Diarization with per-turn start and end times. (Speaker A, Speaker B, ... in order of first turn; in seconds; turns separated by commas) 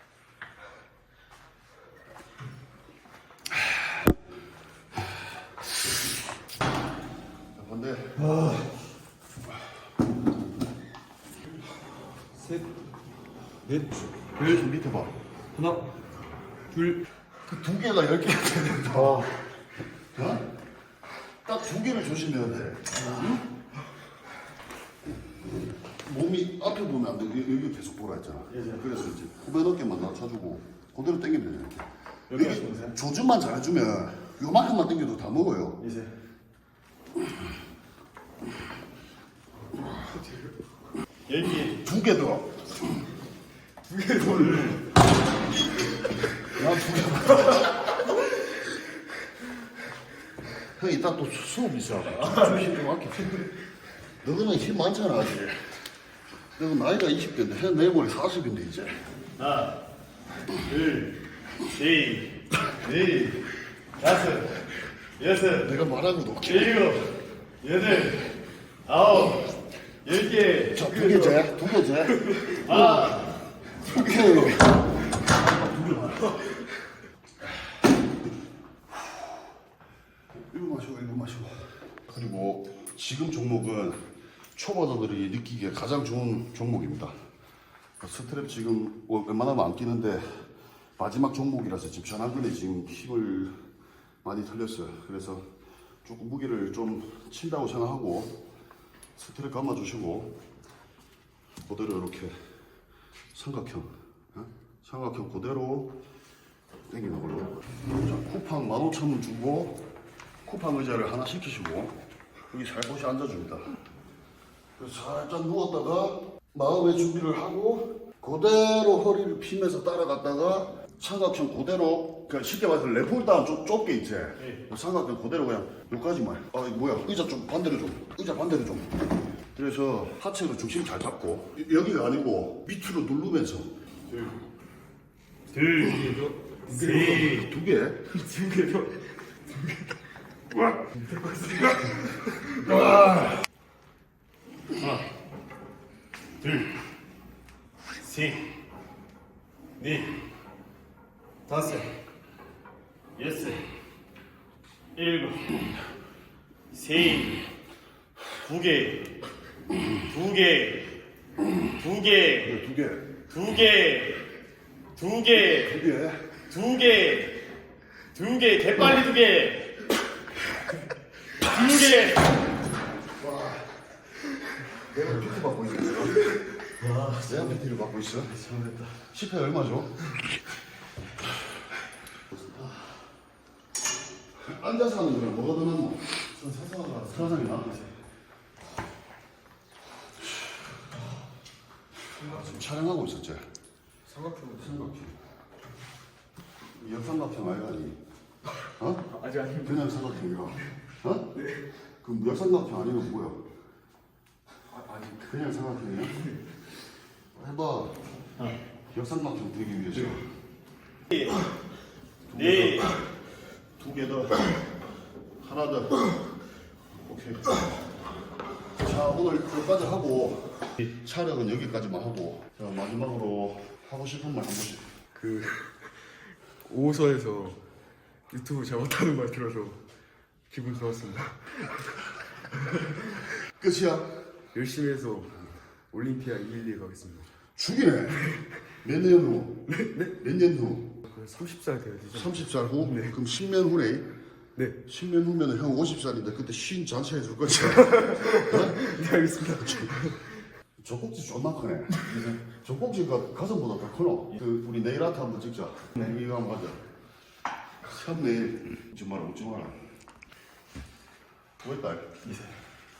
Speaker A: 7.5-8.6, Speaker B: 8.3-8.6, Speaker C: 12.3-12.7, Speaker C: 13.6-14.1, Speaker A: 14.3-15.1, Speaker C: 15.5-15.9, Speaker C: 16.7-17.0, Speaker A: 17.4-19.3, Speaker B: 18.9-19.3, Speaker A: 20.1-20.5, Speaker A: 21.4-23.4, Speaker A: 26.0-35.8, Speaker B: 28.5-28.9, Speaker B: 32.3-33.0, Speaker B: 35.8-36.1, Speaker C: 40.0-40.5, Speaker B: 41.3-41.8, Speaker A: 41.8-42.9, Speaker C: 43.9-44.8, Speaker A: 46.5-47.7, Speaker A: 50.8-53.5, Speaker A: 54.2-55.8, Speaker A: 56.5-59.0, Speaker B: 59.4-59.8, Speaker B: 60.6-64.7, Speaker B: 65.2-65.8, Speaker A: 65.6-66.9, Speaker B: 66.4-71.4, Speaker A: 70.7-73.2, Speaker B: 72.4-73.3, Speaker A: 73.9-76.4, Speaker A: 80.3-87.1, Speaker A: 88.0-90.4, Speaker A: 91.0-93.5, Speaker A: 94.2-95.5, Speaker A: 96.0-98.4, Speaker A: 99.2-100.4, Speaker A: 101.6-102.3, Speaker A: 103.3-106.0, Speaker A: 106.9-109.8, Speaker A: 110.4-112.0, Speaker A: 112.5-113.8, Speaker A: 114.8-133.7, Speaker B: 134.1-134.4, Speaker B: 135.5-137.5, Speaker C: 136.7-137.4, Speaker A: 137.1-138.1, Speaker C: 138.1-140.0, Speaker C: 140.9-142.8, Speaker B: 144.8-145.1, Speaker B: 146.4-146.7, Speaker B: 148.0-148.5, Speaker B: 149.8-150.2, Speaker B: 151.5-151.9, Speaker B: 153.2-153.6, Speaker B: 154.9-155.6, Speaker B: 156.7-157.4, Speaker B: 158.4-159.1, Speaker B: 160.0-160.9, Speaker B: 161.7-162.6, Speaker A: 162.4-163.1, Speaker B: 163.3-164.3, Speaker B: 164.9-165.8, Speaker A: 165.5-166.3, Speaker B: 166.5-167.4, Speaker B: 168.1-169.8, Speaker B: 171.4-172.4, Speaker A: 173.2-173.7, Speaker A: 174.9-176.2, Speaker B: 176.7-177.6, Speaker A: 177.2-178.3, Speaker B: 178.3-179.0, Speaker A: 179.1-180.0, Speaker A: 184.4-186.1, Speaker B: 186.3-187.9, Speaker A: 187.1-187.8, Speaker C: 192.2-192.5, Speaker A: 192.2-193.4, Speaker C: 194.1-194.9, Speaker A: 194.6-195.1, Speaker A: 196.8-198.0, Speaker A: 198.8-199.1, Speaker C: 199.1-200.0, Speaker A: 199.6-201.5, Speaker A: 202.0-203.4, Speaker C: 204.7-205.3, Speaker A: 205.2-206.3, Speaker A: 207.3-208.0, Speaker A: 208.9-210.2, Speaker A: 212.3-212.9, Speaker B: 212.3-212.9, Speaker A: 213.8-214.5, Speaker A: 215.4-216.1, Speaker A: 217.0-217.6, Speaker A: 218.8-224.8, Speaker C: 225.1-227.6, Speaker C: 228.3-229.8, Speaker C: 230.5-233.2, Speaker A: 233.4-234.2, Speaker C: 234.5-237.3, Speaker A: 237.6-241.0, Speaker C: 239.7-240.1, Speaker C: 241.0-243.1, Speaker A: 242.1-244.1, Speaker A: 244.8-248.8, Speaker C: 247.9-250.4, Speaker A: 250.8-256.8, Speaker B: 252.1-252.4, Speaker A: 257.8-259.8, Speaker A: 261.6-262.2, Speaker B: 262.2-262.5